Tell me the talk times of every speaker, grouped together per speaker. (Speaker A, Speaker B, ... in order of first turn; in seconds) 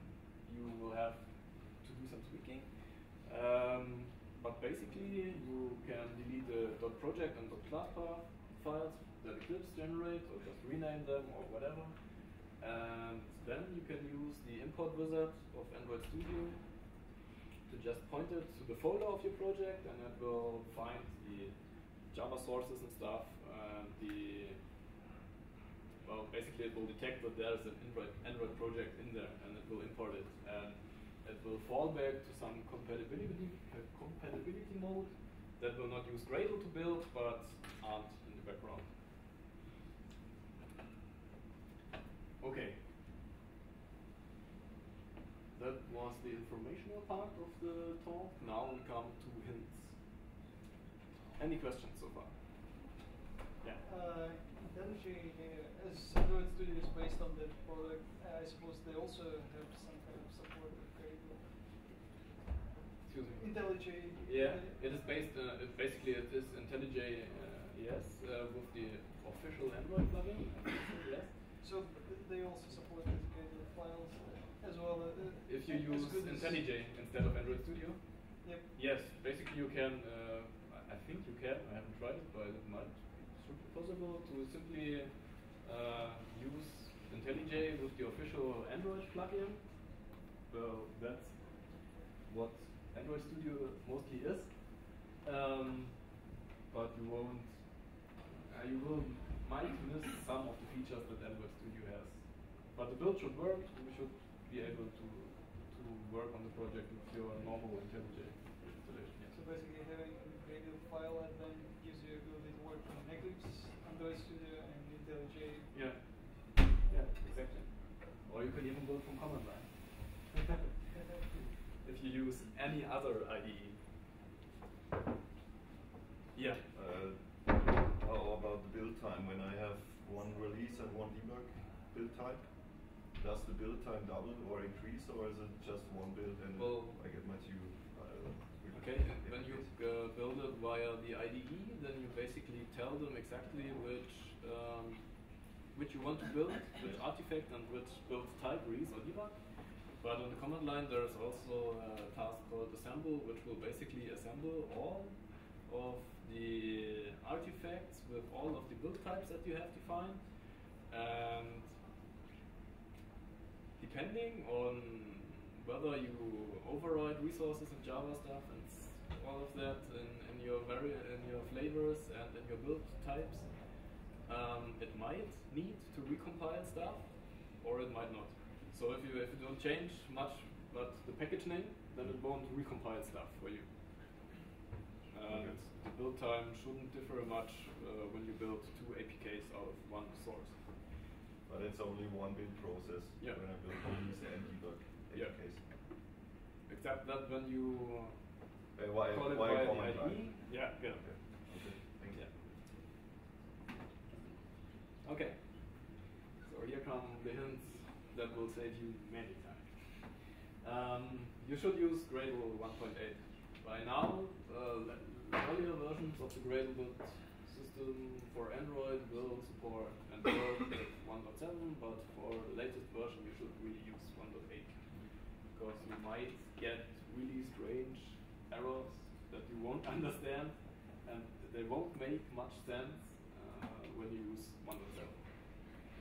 Speaker A: 0.4-16.9, 17.7-24.6, 26.0-39.0, 42.4-42.8, 45.5-50.2, 51.4-52.4, 63.1-71.4, 75.5-109.3, 115.7-120.7, 121.2-123.8, 126.3-126.6, 136.6-137.0, 138.7-161.8, 163.8-184.3, 185.1-190.7, 195.1-195.9, 196.7-198.4, 199.1-202.3, 205.0-235.3
Speaker B: 53.8-61.7, 63.4-65.2, 71.6-76.8, 78.4-78.7, 109.3-115.7
Speaker C: 126.7-139.7, 185.3-185.6, 191.4-195.6, 198.8-202.4